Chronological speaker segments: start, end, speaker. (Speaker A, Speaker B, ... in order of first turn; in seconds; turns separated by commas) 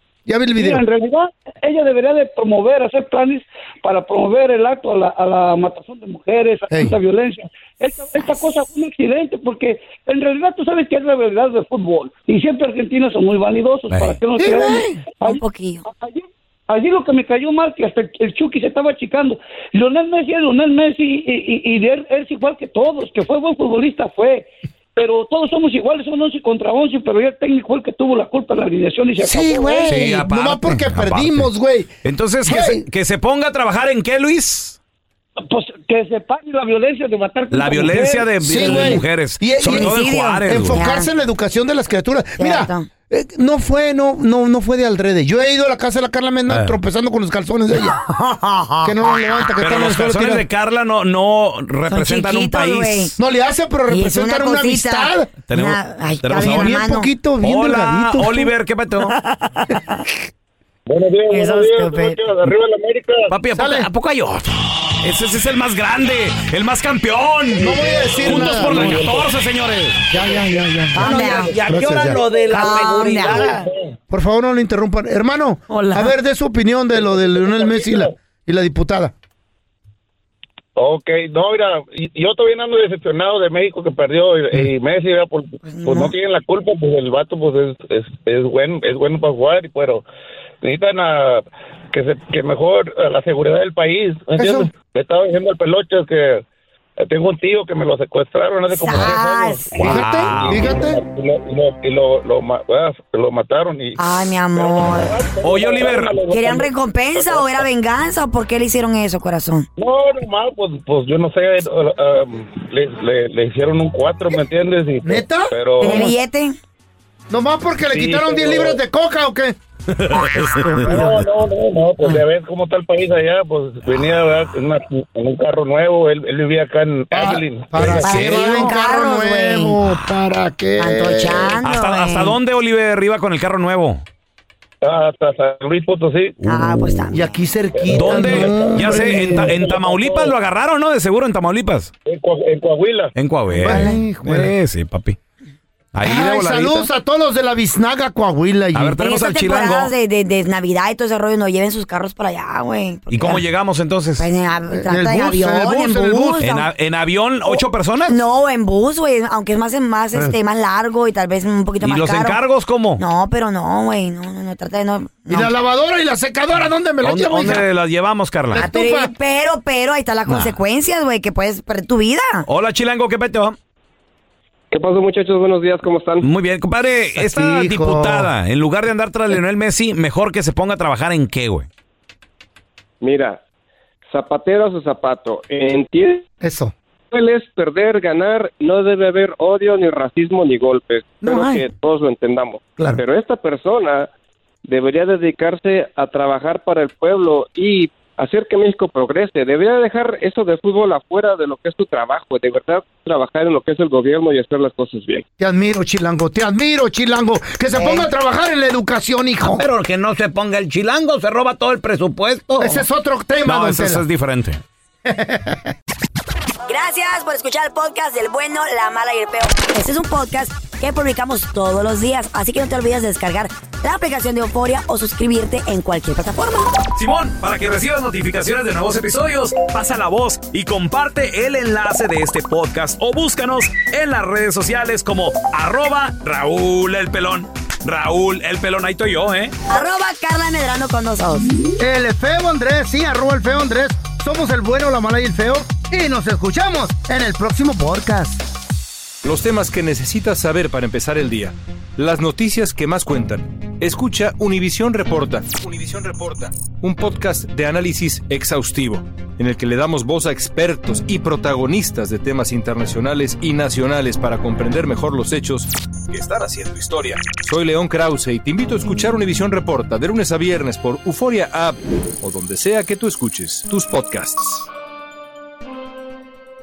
Speaker A: 0.3-0.8, Speaker B: 0.6-29.9, Speaker A: 6.7-7.0, Speaker A: 14.4-15.0, Speaker C: 15.2-15.8, Speaker A: 29.2-31.9, Speaker D: 29.9-31.5, Speaker D: 32.0-34.8, Speaker A: 32.4-32.8, Speaker B: 35.5-38.4, Speaker D: 37.5-40.9, Speaker A: 38.4-48.0, Speaker C: 39.6-41.1, Speaker C: 42.4-42.9, Speaker D: 46.5-46.8, Speaker A: 48.8-50.5, Speaker D: 49.6-53.1, Speaker C: 51.9-53.2, Speaker A: 53.2-55.3, Speaker C: 53.9-57.1, Speaker D: 55.5-56.8, Speaker A: 56.4-58.5, Speaker D: 57.4-59.1, Speaker C: 59.0-60.0, Speaker E: 60.9-63.3, Speaker C: 61.3-62.2, Speaker D: 63.3-70.0, Speaker A: 63.5-63.9, Speaker A: 67.5-69.2, Speaker E: 68.7-69.2, Speaker A: 70.1-72.2, Speaker C: 70.9-71.5, Speaker F: 71.0-73.7, Speaker C: 72.5-73.6, Speaker E: 73.2-73.9, Speaker A: 74.1-79.1, Speaker C: 75.7-76.2, Speaker E: 76.9-78.1, Speaker E: 80.8-90.0, Speaker C: 85.6-86.1, Speaker E: 90.6-96.4, Speaker A: 94.4-94.7, Speaker E: 97.0-107.7, Speaker C: 98.7-100.0, Speaker D: 99.8-100.8, Speaker A: 99.8-101.0, Speaker C: 104.0-105.3, Speaker D: 105.4-106.2, Speaker C: 106.2-109.7, Speaker E: 109.8-116.1, Speaker A: 115.0-116.1, Speaker C: 115.8-116.6, Speaker A: 117.3-119.6, Speaker E: 117.9-118.8, Speaker D: 120.0-120.9, Speaker A: 120.5-121.2, Speaker E: 120.9-128.0, Speaker A: 127.1-131.6, Speaker D: 127.8-128.6, Speaker C: 128.0-129.8, Speaker C: 130.8-132.4, Speaker D: 131.6-134.0, Speaker E: 134.8-136.4, Speaker C: 136.4-137.4, Speaker A: 137.1-139.6, Speaker E: 137.7-140.3, Speaker D: 137.9-141.9, Speaker E: 142.1-143.1, Speaker D: 143.2-145.2, Speaker C: 143.5-144.0, Speaker A: 143.6-144.5, Speaker D: 145.9-146.9, Speaker A: 146.0-149.0, Speaker D: 148.8-149.9, Speaker C: 149.0-153.4, Speaker D: 153.1-154.3, Speaker C: 154.2-156.7, Speaker A: 154.7-156.4, Speaker D: 156.4-158.2, Speaker C: 157.5-162.4, Speaker D: 161.8-163.0, Speaker C: 163.0-165.5, Speaker A: 165.3-167.7, Speaker D: 167.0-168.6, Speaker A: 168.5-169.1, Speaker C: 168.5-172.5, Speaker D: 172.5-173.6, Speaker B: 174.9-176.2, Speaker D: 176.2-181.7, Speaker A: 177.2-178.3, Speaker B: 184.4-185.3, Speaker A: 186.4-186.7, Speaker G: 190.0-190.8, Speaker B: 190.5-192.4, Speaker C: 191.2-191.7, Speaker A: 191.3-191.6, Speaker A: 192.8-193.0, Speaker G: 199.2-199.6, Speaker G: 200.2-201.1, Speaker G: 201.7-203.1, Speaker B: 204.4-204.7, Speaker A: 205.4-209.7, Speaker C: 207.7-208.1, Speaker F: 209.5-212.8, Speaker A: 212.6-214.0, Speaker D: 213.5-214.6, Speaker A: 215.1-215.7, Speaker C: 216.7-226.8, Speaker D: 226.9-239.6, Speaker C: 239.7-241.5, Speaker A: 241.8-248.4, Speaker H: 249.2-274.7